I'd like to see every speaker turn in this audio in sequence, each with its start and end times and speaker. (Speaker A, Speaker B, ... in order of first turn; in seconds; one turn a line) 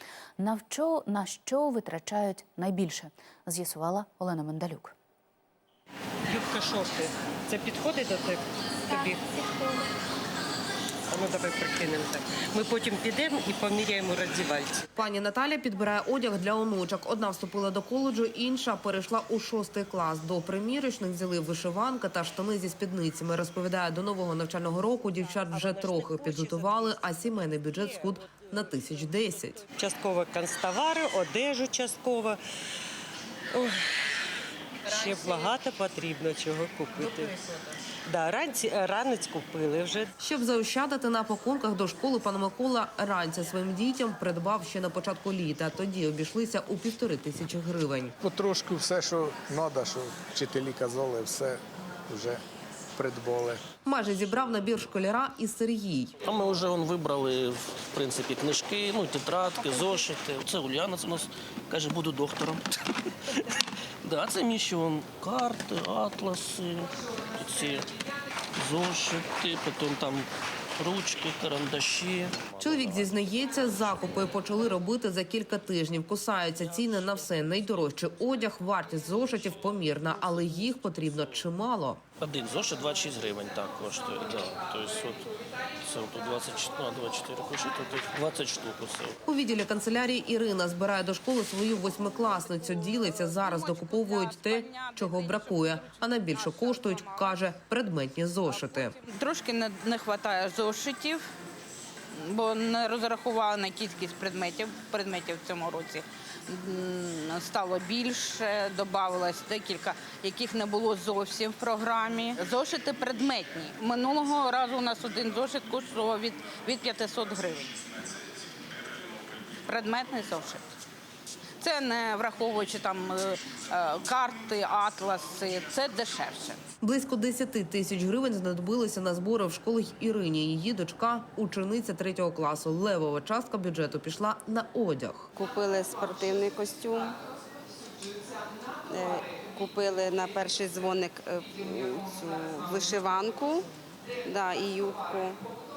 Speaker A: 0.4-4.9
Speaker B: 6.3-9.8
Speaker B: 11.1-14.8
Speaker C: 15.0-29.6
Speaker B: 25.3-29.1
Speaker B: 29.6-32.4
Speaker B: 33.5-33.9
Speaker B: 34.8-37.5
Speaker B: 38.0-40.1
Speaker C: 40.2-48.1
Speaker D: 48.2-52.4
Speaker D: 53.0-53.6
Speaker C: 53.8-56.1
Speaker E: 56.2-62.6
Speaker E: 64.0-67.9
Speaker E: 68.6-74.2
Speaker C: 72.6-82.0
Speaker E: 82.2-85.3
Speaker E: 85.8-89.2
Speaker C: 89.2-98.9
Speaker F: 92.8-97.4
Speaker F: 98.5-101.3
Speaker F: 102.2-117.7
Speaker F: 119.7-120.6
Speaker F: 121.6-126.6
Speaker C: 126.8-135.3
Speaker G: 135.3-137.1
Speaker G: 138.8-143.7
Speaker G: 144.2-145.4